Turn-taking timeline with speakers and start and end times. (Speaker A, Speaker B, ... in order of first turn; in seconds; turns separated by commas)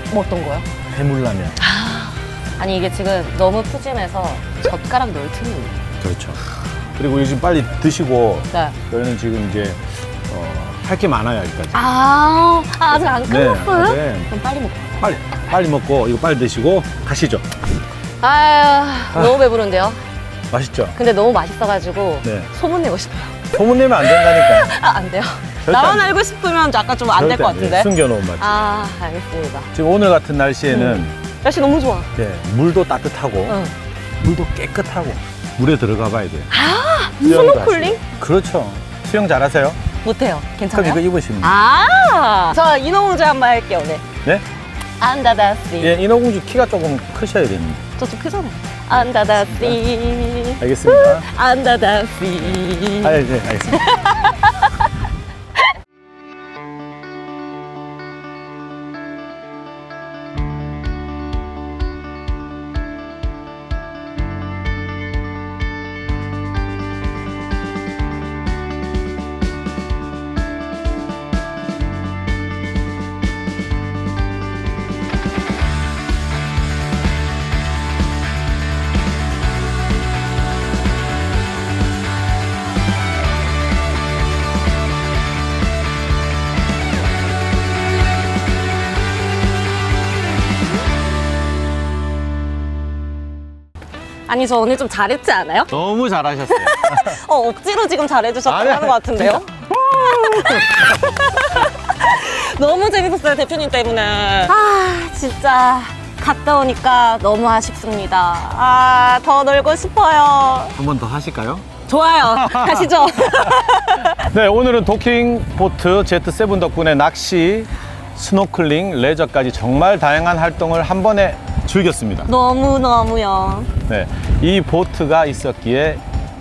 Speaker A: 0.1-0.7, Speaker B: 0.9-1.6, Speaker A: 1.6-5.8, Speaker B: 6.0-6.4, Speaker B: 7.0-11.8, Speaker A: 8.5-8.8, Speaker A: 11.7-15.2, Speaker B: 13.1-14.3, Speaker B: 15.0-17.4, Speaker A: 18.2-20.0, Speaker B: 19.1-19.4, Speaker B: 20.5-21.0, Speaker A: 20.9-29.7, Speaker B: 22.2-22.5, Speaker B: 23.5-24.7, Speaker B: 25.6-26.2, Speaker B: 27.1-28.5, Speaker B: 29.7-31.1, Speaker A: 30.7-32.1, Speaker B: 32.2-33.6, Speaker A: 33.5-33.7, Speaker B: 34.2-36.5, Speaker A: 36.5-38.0, Speaker B: 37.2-39.8, Speaker A: 40.0-44.0, Speaker B: 40.7-41.6, Speaker A: 45.0-46.0, Speaker B: 45.8-47.8, Speaker A: 48.0-54.9, Speaker B: 49.4-49.8, Speaker B: 50.6-51.3, Speaker B: 53.0-54.0, Speaker A: 94.3-95.7, Speaker B: 95.7-97.2, Speaker A: 96.5-110.8, Speaker B: 98.5-101.0, Speaker B: 110.8-111.7, Speaker A: 111.9-114.3, Speaker B: 112.3-113.6, Speaker B: 114.1-122.3, Speaker A: 122.2-123.7, Speaker B: 123.9-126.0